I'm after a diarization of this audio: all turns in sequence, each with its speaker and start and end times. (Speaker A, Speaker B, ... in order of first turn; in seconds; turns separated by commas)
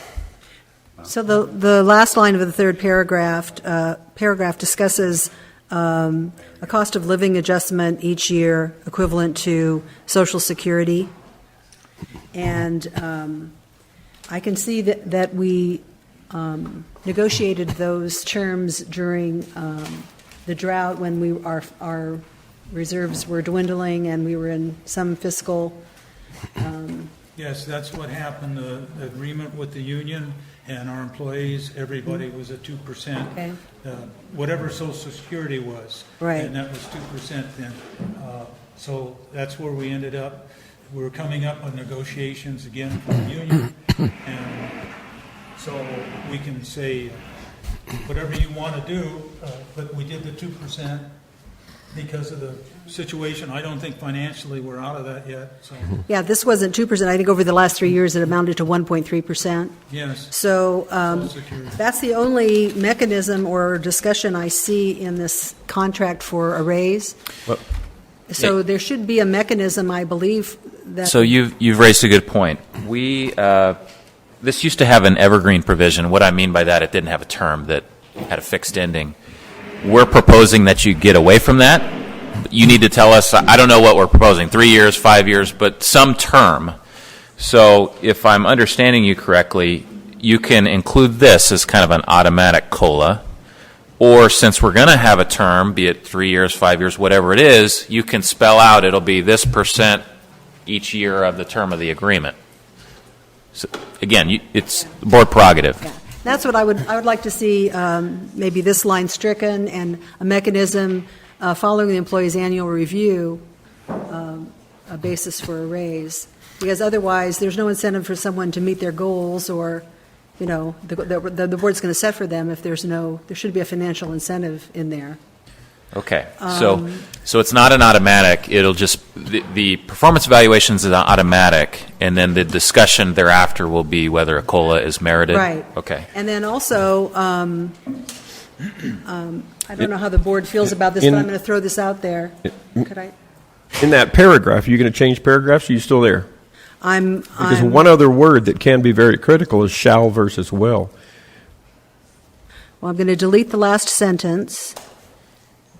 Speaker A: 1.0-11.1, Speaker A: 12.3-13.5, Speaker A: 14.3-25.8, Speaker A: 26.6-27.1, Speaker B: 27.4-44.8, Speaker A: 36.2-36.5, Speaker B: 45.6-47.3, Speaker B: 48.0-51.1, Speaker B: 51.9-56.0, Speaker A: 56.1-59.8, Speaker B: 59.9-60.4, Speaker A: 60.3-67.2, Speaker B: 61.0-61.8, Speaker A: 68.3-71.3, Speaker C: 71.0-73.8, Speaker C: 74.4-79.2, Speaker C: 79.8-86.8, Speaker C: 87.4-93.2, Speaker C: 94.0-100.1, Speaker C: 100.7-102.4, Speaker C: 103.5-105.8, Speaker A: 105.8-113.5, Speaker A: 114.1-119.9, Speaker A: 120.4-125.2, Speaker C: 125.9-136.1, Speaker A: 126.4-127.1, Speaker A: 135.3-137.8, Speaker A: 139.1-143.2, Speaker D: 143.8-146.3, Speaker A: 146.8-147.8, Speaker D: 147.4-150.9, Speaker A: 152.8-154.8